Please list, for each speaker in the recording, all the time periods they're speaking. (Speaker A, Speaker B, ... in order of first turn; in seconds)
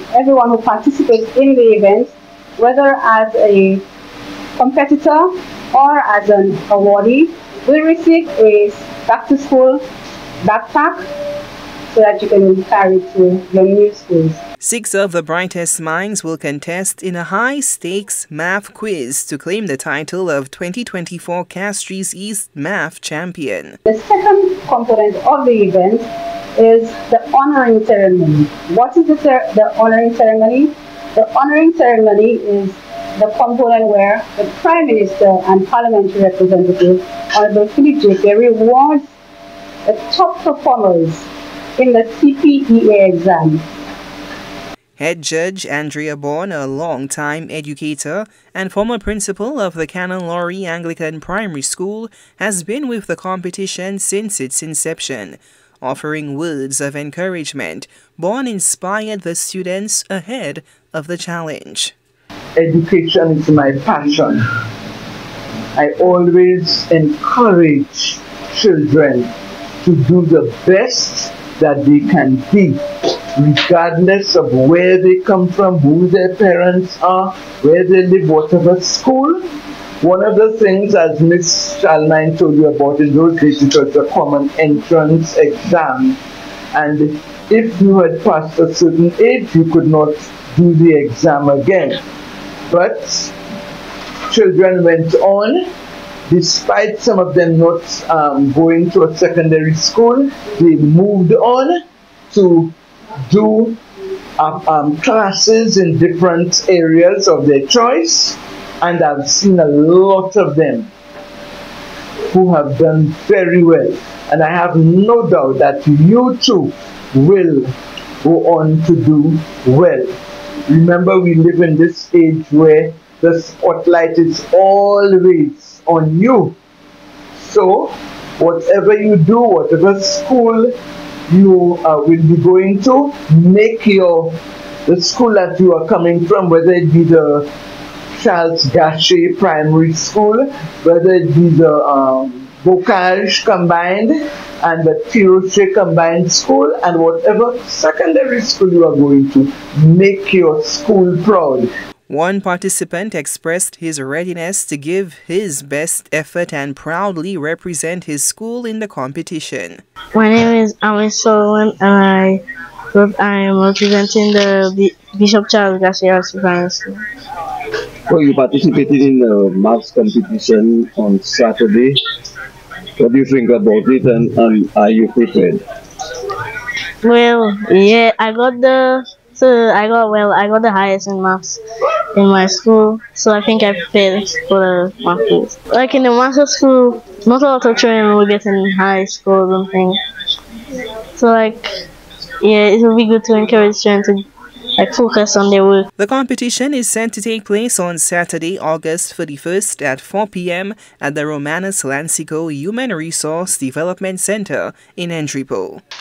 Speaker A: 0.1-3.8, 4.6-9.8, 10.4-11.1, 11.9-14.4, 23.9-39.1, 39.9-41.3, 41.8-43.7
Speaker B: 14.6-23.8, 45.0-62.0, 152.1-159.8, 196.0-205.8
Speaker C: 62.6-64.4, 65.8-72.8, 73.3-79.4, 80.0-86.2, 86.7-92.0, 92.7-93.3, 94.3-95.7, 96.3-101.8, 102.3-102.7, 103.2-103.8, 104.4-110.9, 112.3-117.7, 118.2-120.1, 120.7-126.6, 127.3-130.7, 131.3-137.5, 138.1-151.7
Speaker D: 160.1-162.4, 162.9-167.0, 177.0-181.6, 182.1-190.0, 191.1-191.7, 192.4-194.2, 194.8-195.9
Speaker E: 168.1-172.0, 173.0-175.6